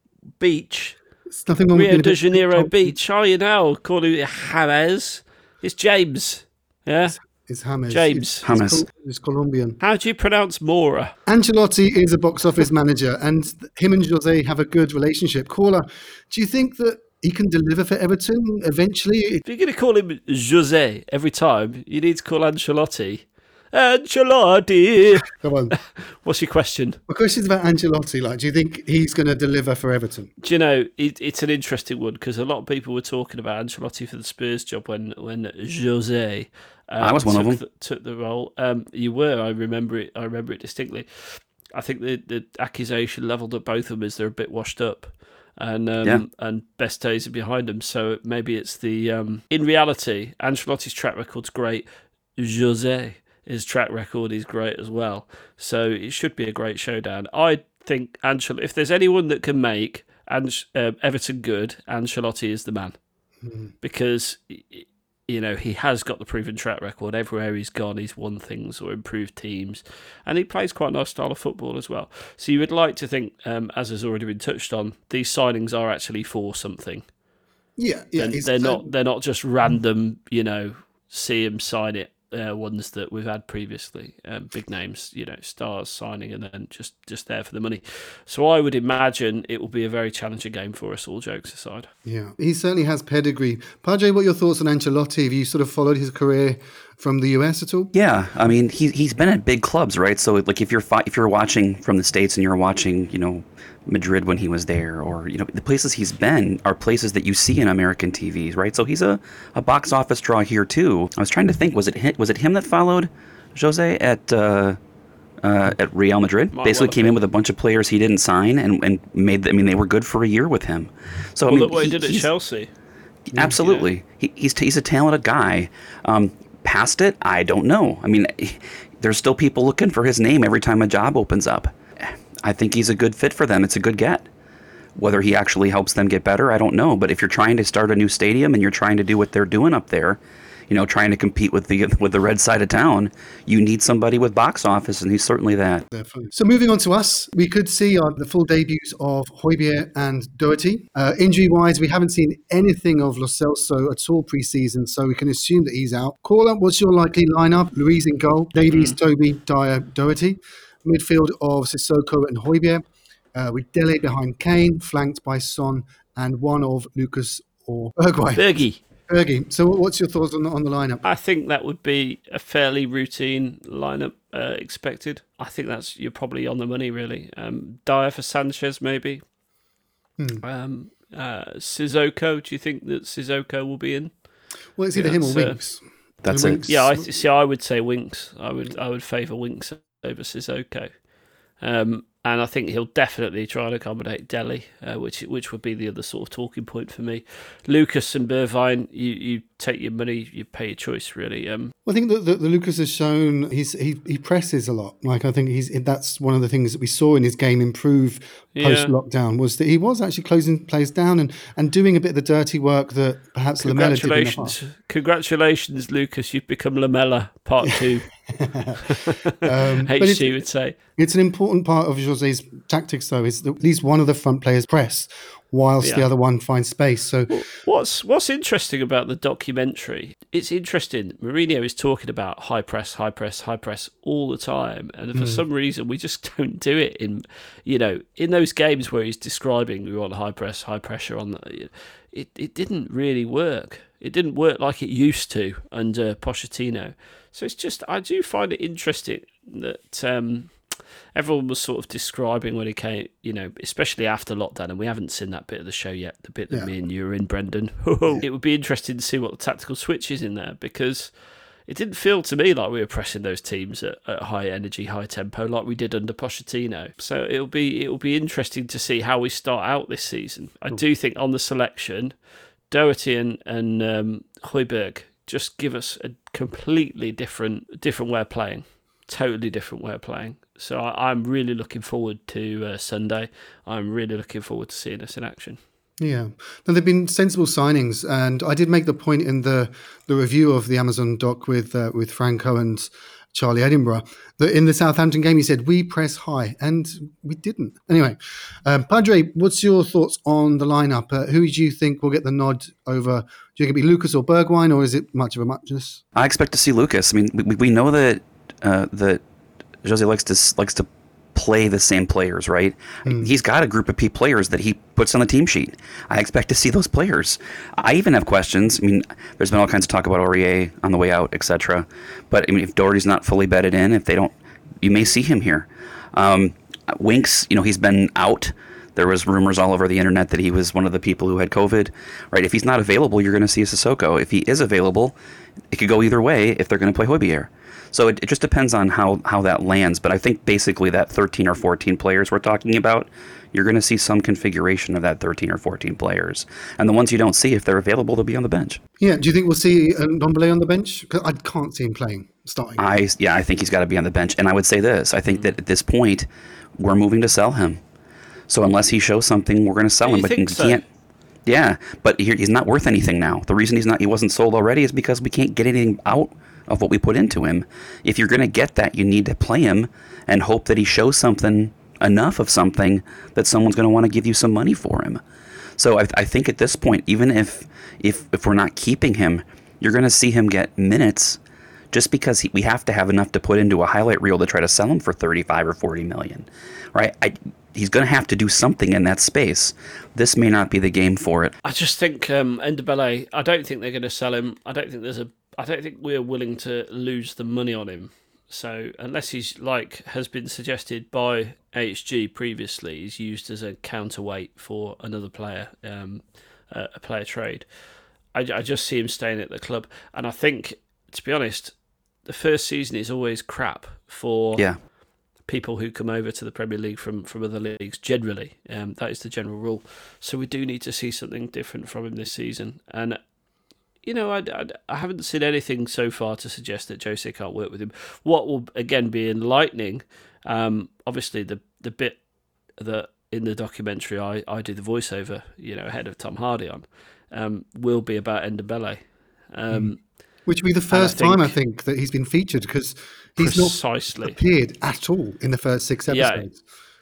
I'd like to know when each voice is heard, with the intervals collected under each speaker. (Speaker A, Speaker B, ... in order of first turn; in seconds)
Speaker A: 0.4-1.0, 1.7-7.2, 7.9-8.4, 9.8-11.1, 19.4-25.3, 26.0-27.0, 30.4-51.9, 52.4-63.0, 63.8-77.0, 78.2-91.9, 116.5-117.2, 121.5-122.7, 123.6-123.9, 168.3-168.8, 171.0-179.2, 180.4-184.2, 184.9-185.6, 186.6-191.0, 191.6-201.7, 208.6-208.9, 213.6-218.1, 218.9-220.8, 225.8-226.1, 227.3-261.1, 261.7-272.1, 272.7-285.6, 360.0-360.8, 391.6-407.7, 408.3-414.6, 415.4-423.2, 424.0-432.2, 432.8-440.0, 440.9-441.6, 443.4-444.4, 446.1-446.4
Speaker B: 1.3-2.9, 7.2-9.8, 11.2-19.4, 25.4-25.8, 27.1-30.3, 63.4-63.7, 77.8-78.9, 92.0-97.9, 145.9-168.4, 169.1-171.1, 180.2-180.4, 184.8-187.1, 201.8-214.6, 218.3-218.8, 219.4-220.3, 221.0-227.4, 235.1-235.4, 286.0-306.0, 313.0-313.3, 349.0-352.8, 440.4-446.6
Speaker C: 8.4-8.8, 37.0-37.6, 97.9-114.8, 115.4-122.3, 123.3-134.3, 134.9-145.8, 186.2-186.6, 306.1-309.2, 309.8-335.1, 335.7-348.8, 352.8-356.3, 356.8-357.8, 358.5-360.8, 361.4-375.2, 375.8-381.4, 381.9-391.5